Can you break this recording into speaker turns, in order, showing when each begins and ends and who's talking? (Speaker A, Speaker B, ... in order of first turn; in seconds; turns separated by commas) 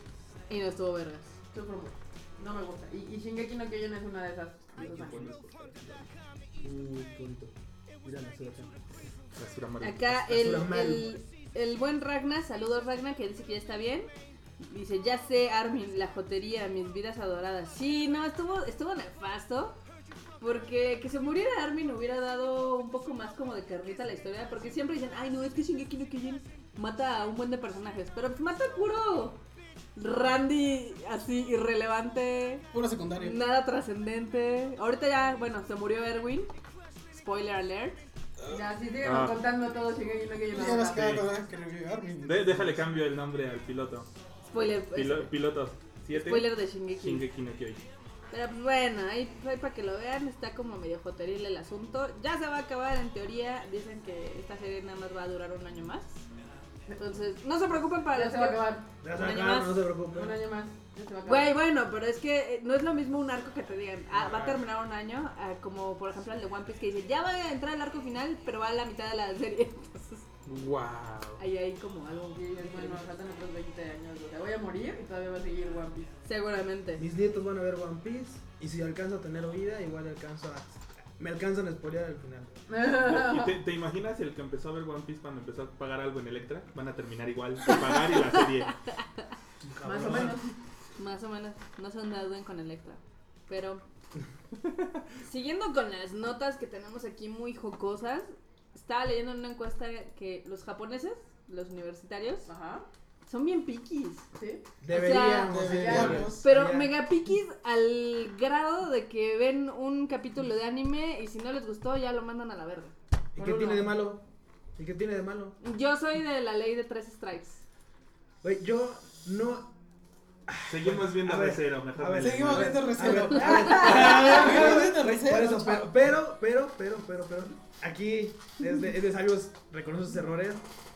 Speaker A: 0.5-1.3, Speaker B: 1.5-5.3, Speaker C: 4.8-6.0, Speaker C: 6.6-8.8, Speaker D: 9.3-10.1, Speaker A: 9.8-19.8, Speaker C: 10.1-11.1, Speaker A: 20.4-29.4, Speaker A: 29.9-36.5, Speaker E: 32.7-33.4, Speaker A: 37.1-38.0, Speaker B: 38.5-41.2, Speaker D: 39.0-39.4, Speaker E: 40.5-42.8, Speaker D: 40.9-41.2, Speaker D: 42.2-44.1, Speaker A: 44.5-45.3, Speaker D: 44.9-47.8, Speaker A: 46.1-47.2, Speaker A: 48.3-56.2, Speaker A: 57.0-59.8, Speaker B: 58.1-58.9, Speaker C: 59.0-60.4, Speaker B: 60.1-61.5, Speaker A: 61.2-70.2, Speaker C: 64.1-64.6, Speaker D: 70.5-71.4, Speaker A: 71.4-73.0, Speaker B: 72.3-76.1, Speaker A: 76.2-77.0, Speaker C: 77.0-82.6, Speaker B: 82.7-83.6, Speaker D: 82.9-88.8, Speaker A: 87.7-89.2, Speaker C: 89.7-90.4, Speaker B: 89.8-90.5, Speaker A: 91.0-93.8, Speaker A: 95.2-102.5, Speaker B: 102.5-102.8, Speaker A: 103.2-104.3, Speaker B: 104.3-104.6, Speaker C: 104.8-106.9, Speaker A: 104.9-105.6, Speaker E: 105.3-106.4, Speaker B: 105.6-106.3, Speaker A: 106.4-113.9, Speaker C: 113.3-114.2, Speaker C: 114.8-115.5, Speaker A: 115.6-117.6, Speaker C: 118.4-119.7, Speaker C: 120.5-130.6, Speaker D: 120.7-123.2, Speaker E: 122.2-125.9, Speaker B: 123.2-124.6, Speaker A: 123.2-124.1, Speaker D: 124.0-124.4